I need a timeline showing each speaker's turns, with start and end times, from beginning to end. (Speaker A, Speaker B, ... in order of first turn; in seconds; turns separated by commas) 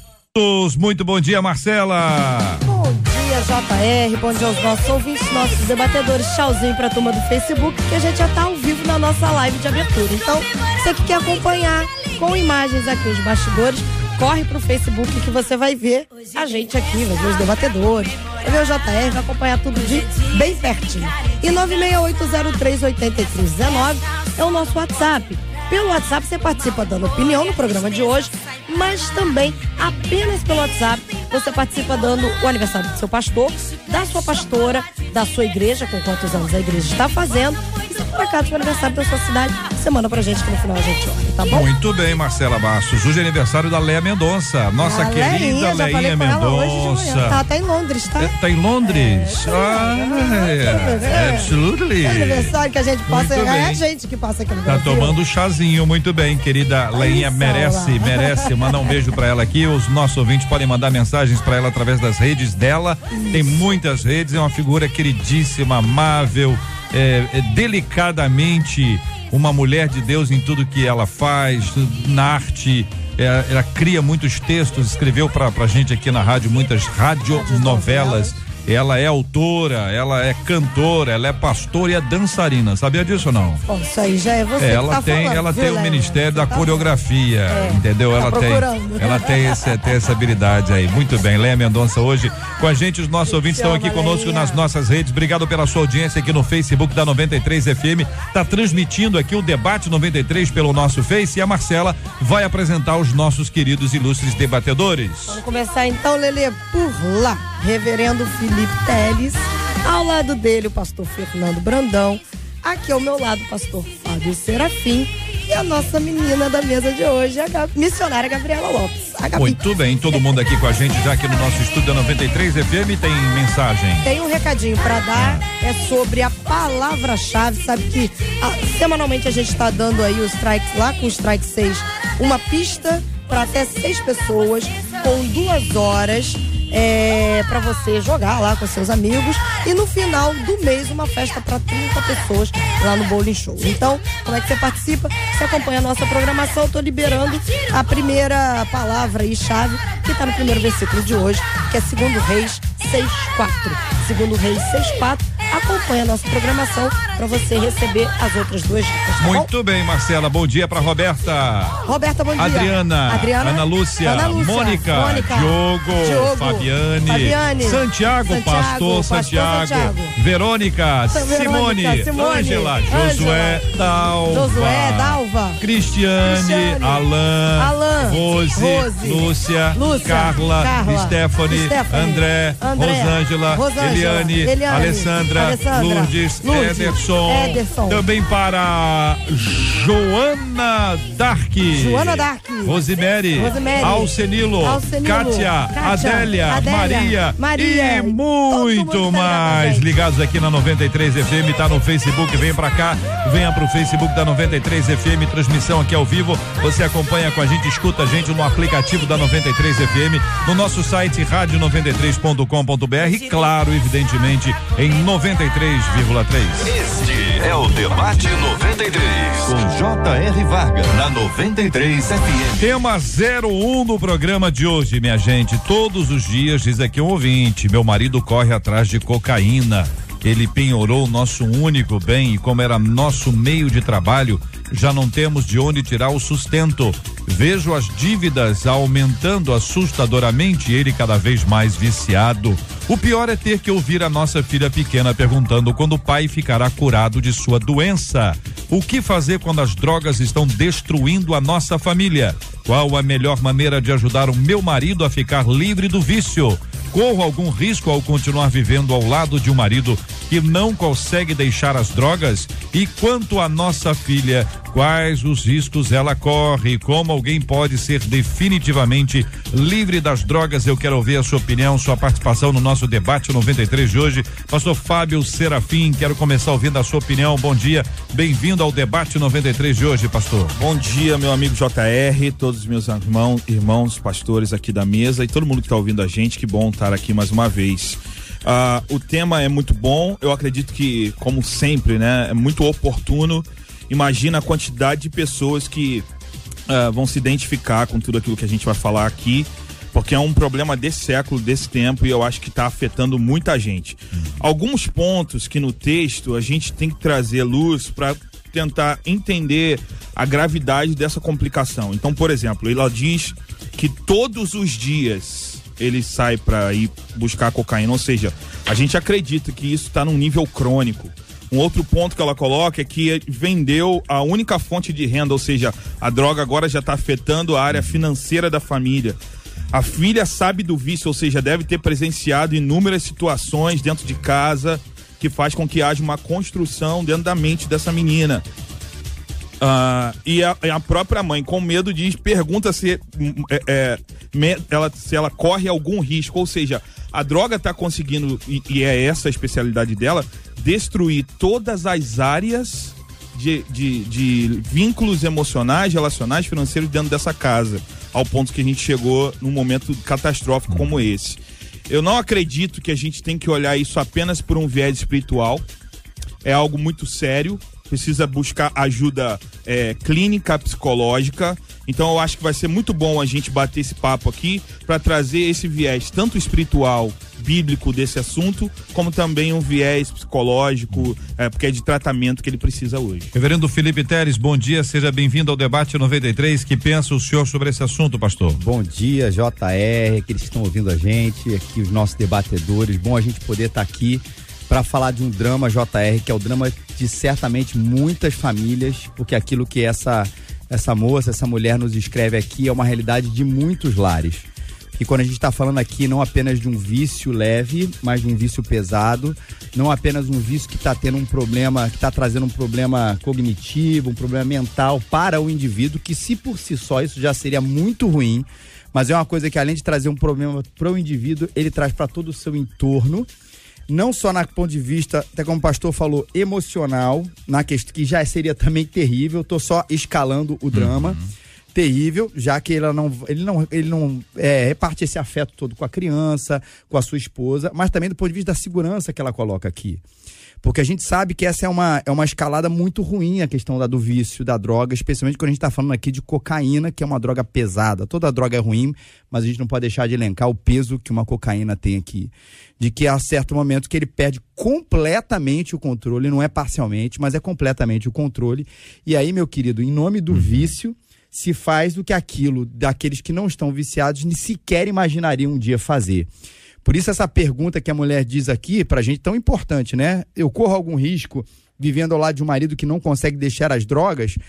Speaker A: 0.3-2.6, Speaker B: 2.6-41.7, Speaker A: 41.5-47.4, Speaker B: 44.8-55.2, Speaker A: 48.2-52.5, Speaker A: 53.1-53.8, Speaker A: 54.6-83.6, Speaker B: 56.9-59.0, Speaker B: 63.1-63.6, Speaker B: 77.3-78.3, Speaker B: 83.7-87.0, Speaker A: 84.6-105.4, Speaker B: 87.5-89.8, Speaker B: 93.2-94.7, Speaker B: 105.3-119.6, Speaker A: 119.3-124.1, Speaker B: 124.0-159.5, Speaker A: 125.1-125.4, Speaker A: 159.2-161.8, Speaker B: 161.8-170.1, Speaker A: 162.4-216.7, Speaker B: 171.1-173.6, Speaker B: 174.3-175.6, Speaker B: 176.2-188.0, Speaker B: 191.7-192.8, Speaker B: 193.3-199.8, Speaker C: 216.6-222.7, Speaker A: 222.6-280.5, Speaker D: 280.5-296.1, Speaker D: 296.7-329.2, Speaker D: 329.7-338.4, Speaker D: 339.6-365.6, Speaker A: 360.7-361.0, Speaker D: 366.4-383.3, Speaker A: 383.3-388.6, Speaker E: 388.6-423.3, Speaker E: 423.9-431.2, Speaker A: 430.7-431.2, Speaker E: 431.7-440.0, Speaker E: 440.6-466.3, Speaker E: 466.8-474.4